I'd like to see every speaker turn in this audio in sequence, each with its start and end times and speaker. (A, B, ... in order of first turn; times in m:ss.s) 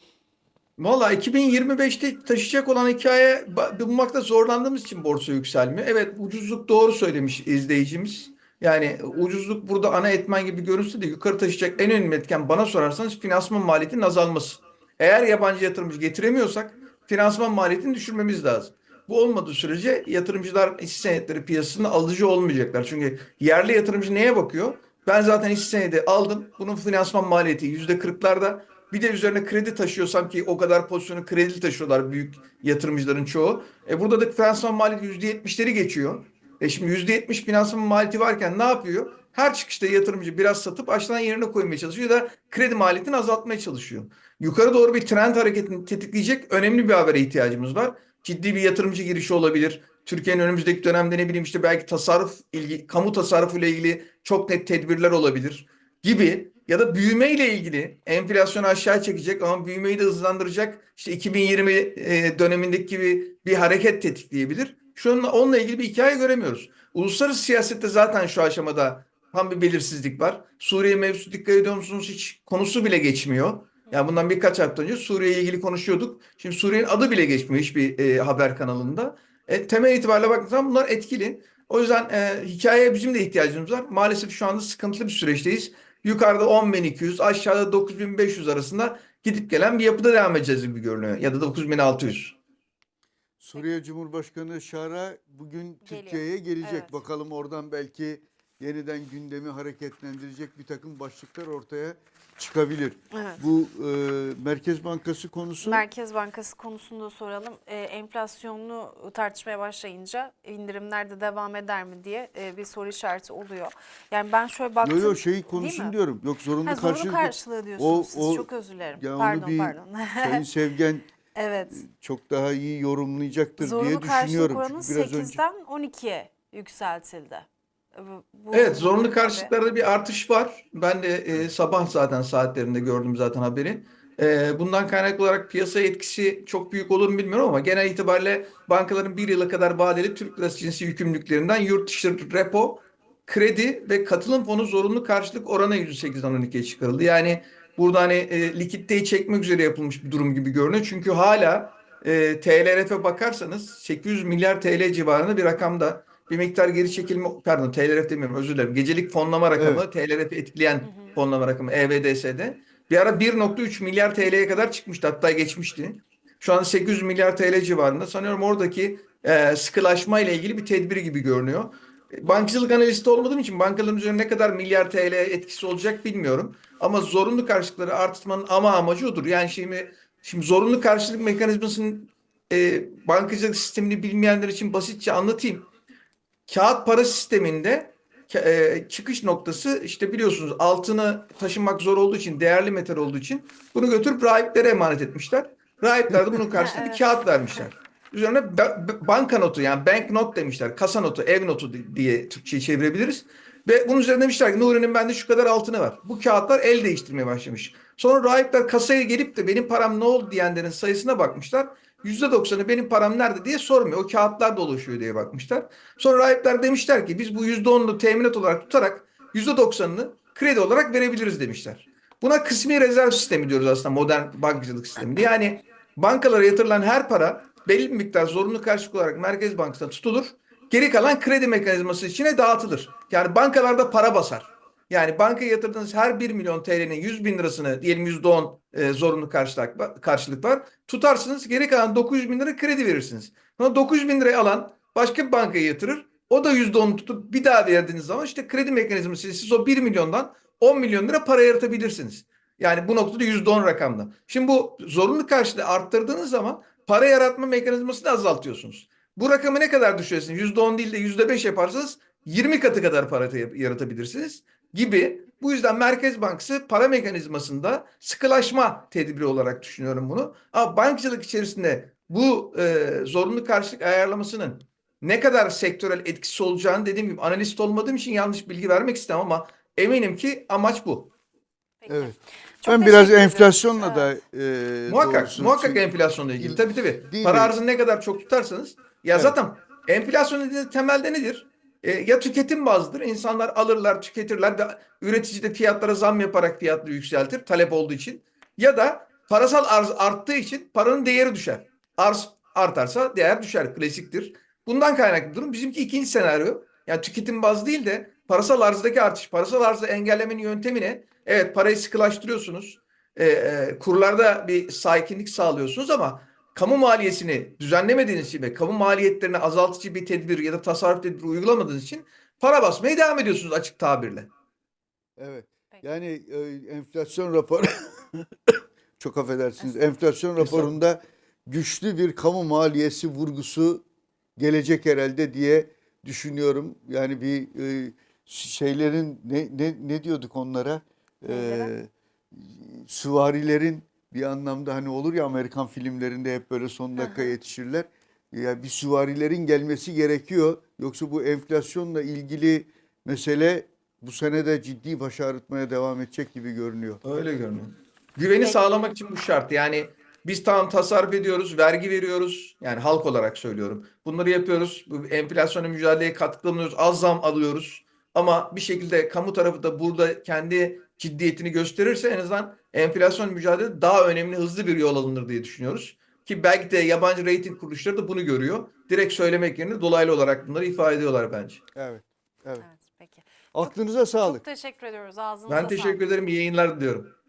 0:00.8-1:32.4 A
1:33.4-1:45.8 B
1:35.8-1:37.0 C
1:43.1-1:43.4 C
1:45.6-1:56.0 C
1:54.8-2:01.1 B
1:56.6-2:00.5 C
2:01.4-2:01.8 C
2:01.7-2:05.4 B
2:03.6-2:09.5 C
2:08.5-3:05.7 A
2:39.6-2:39.8 B
2:40.8-2:41.2 C
3:06.5-4:41.1 A
3:16.6-3:17.7 C
4:41.8-4:44.1 C
4:41.9-4:42.1 B
4:42.6-4:45.9 B
4:44.9-5:24.3 A
4:46.4-4:47.6 B
5:25.2-5:33.8 B
5:29.6-5:30.0 C
5:30.4-5:30.7 A
5:34.4-5:57.0 B
5:41.3-5:41.7 C
5:47.0-5:47.3 C
5:57.0-6:21.6 A
6:21.8-6:22.7 B
6:22.6-6:26.2 C
6:23.5-6:24.4 B
6:25.5-6:27.1 A